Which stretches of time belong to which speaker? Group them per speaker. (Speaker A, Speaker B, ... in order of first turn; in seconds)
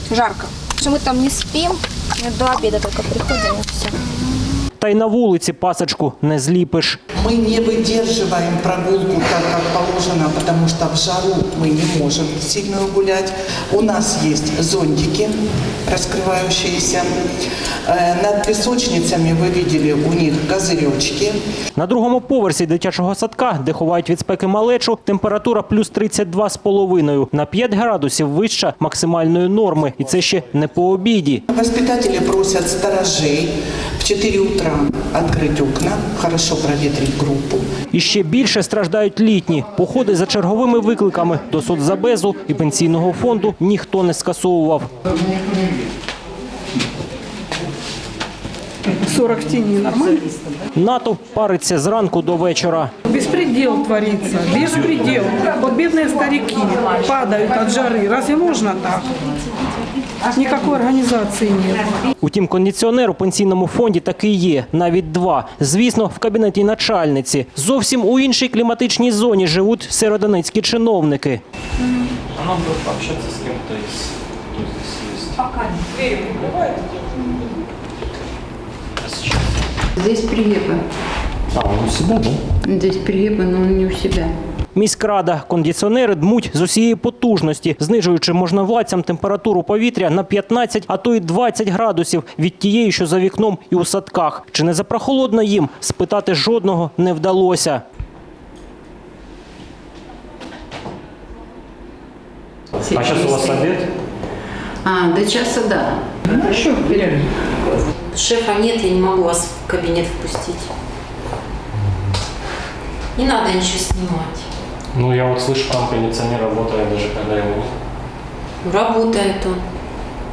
Speaker A: 0.1-4.0
Speaker B: 4.8-7.0, 21.8-31.4, 37.9-44.9, 50.8-52.9, 62.2-71.4, 84.7-97.8, 103.0-103.4
Speaker C: 7.1-15.3, 15.8-17.1, 17.9-21.4, 31.5-37.6
Speaker D: 48.9-50.3, 53.0-59.1, 60.3-61.9
Speaker E: 72.4-75.5, 79.0-79.3, 81.5-82.4, 102.8-103.8, 114.9-117.7
Speaker F: 80.0-80.8, 82.6-84.3, 102.9-103.5, 104.8-107.3
Speaker G: 108.1-110.7, 113.1-114.5, 118.6-119.6